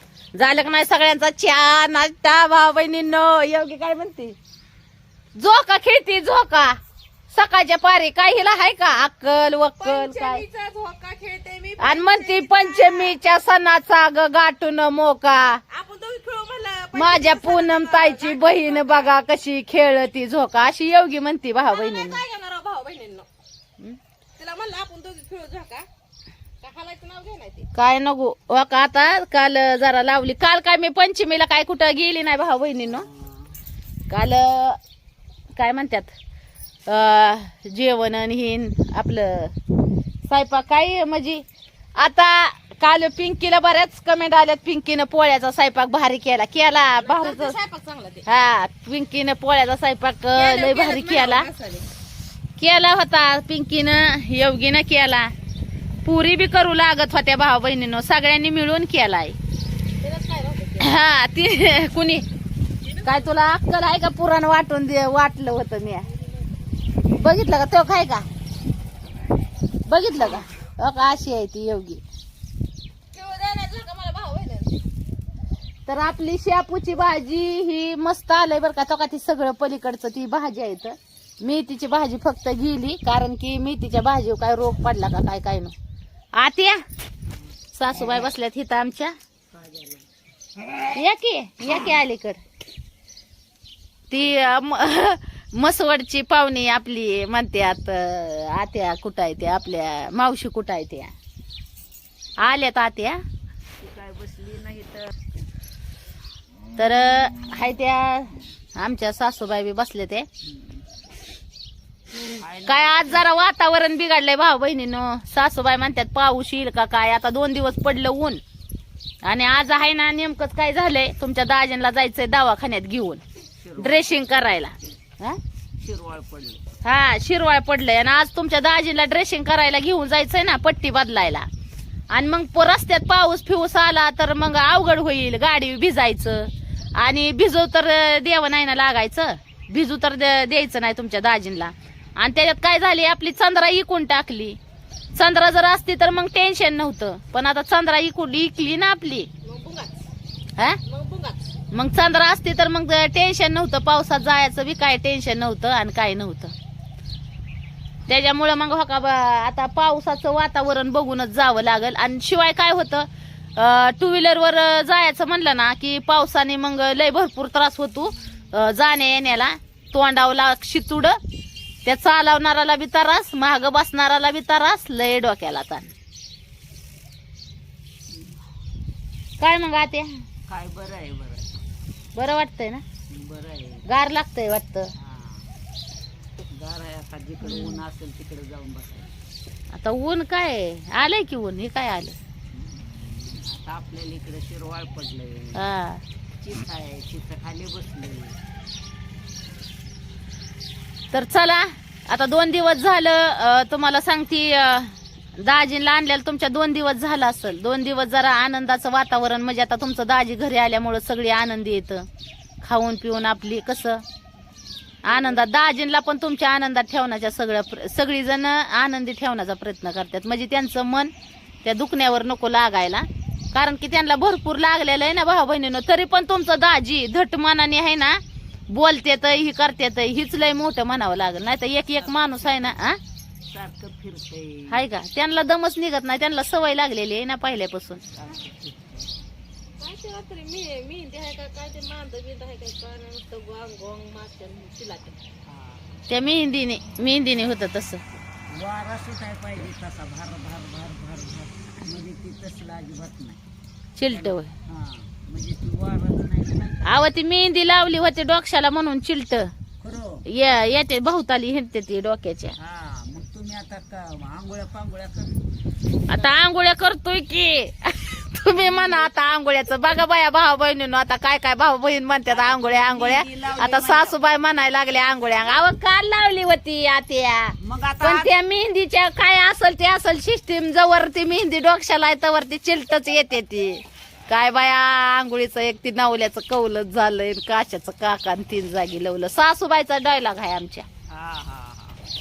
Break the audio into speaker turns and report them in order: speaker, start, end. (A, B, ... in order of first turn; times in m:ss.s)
0:00.3-0:04.4 A
0:05.4-0:06.8 A
0:07.3-0:10.4 A
0:09.8-0:13.2 B
0:11.8-0:15.6 A
0:15.7-0:19.1 B
0:16.9-0:22.2 A
0:21.6-0:23.3 B
0:24.4-0:25.9 B
0:26.6-0:27.7 B
0:27.7-0:33.1 A
0:33.0-0:33.5 C
0:34.1-0:34.8 A
0:35.5-0:36.1 A
0:36.9-0:39.5 A
0:40.3-0:41.4 A
0:42.0-0:47.6 A
0:47.0-0:48.2 B
0:48.2-0:51.5 A
0:50.3-0:51.9 B
0:52.6-0:55.3 A
0:56.0-0:59.4 A
1:00.0-1:01.0 B
1:00.8-1:02.2 A
1:02.8-1:03.3 B
1:03.0-1:06.0 A
1:07.1-1:08.2 A
1:09.9-1:12.0 A
1:13.1-1:14.8 B
1:15.9-1:25.7 A
1:26.3-1:26.8 A
1:27.8-1:29.1 A
1:27.9-1:28.3 C
1:29.5-1:30.0 C
1:30.9-1:32.4 A
1:34.1-1:41.1 A
1:34.2-1:34.6 C
1:42.4-1:43.2 A
1:43.8-1:45.1 C
1:46.8-1:50.3 A
1:52.4-1:53.2 C
1:52.6-1:58.4 A
1:59.2-2:03.2 A
2:03.6-2:04.1 C
2:03.8-2:05.4 A
2:05.8-2:06.6 C
2:06.8-2:11.5 A
2:12.1-2:24.6 A
2:25.1-2:29.3 A
2:29.4-2:30.0 B
2:30.8-2:31.4 B
2:31.7-2:36.5 A
2:38.1-2:51.2 A
2:51.8-2:55.9 A
2:59.4-3:00.1 A
3:00.5-3:01.5 C
3:02.1-3:02.8 A
3:03.1-3:03.9 C
3:03.9-3:04.9 A
3:05.0-3:05.5 C
3:06.5-3:09.1 C
3:07.4-3:07.8 A
3:09.7-3:12.2 A
3:12.5-3:15.6 C
3:15.5-3:16.0 A
3:16.4-3:18.4 C
3:21.1-3:32.1 A
3:32.6-3:34.0 A
3:35.0-3:41.1 A
3:41.6-3:53.0 A
3:52.0-3:52.8 C
3:53.5-3:54.8 C
3:54.7-3:58.0 A
3:58.1-3:59.1 C
3:59.8-4:05.2 B
4:05.5-4:05.9 C
4:06.1-4:08.0 A
4:08.5-4:13.4 C
4:14.0-4:14.5 A
4:14.1-4:17.0 C
4:16.8-4:19.5 A
4:19.8-4:20.2 C
4:20.3-4:22.5 A
4:22.6-4:25.5 C
4:26.1-4:50.8 A
4:32.3-4:34.2 C
4:37.6-4:38.3 C
4:51.1-4:52.0 C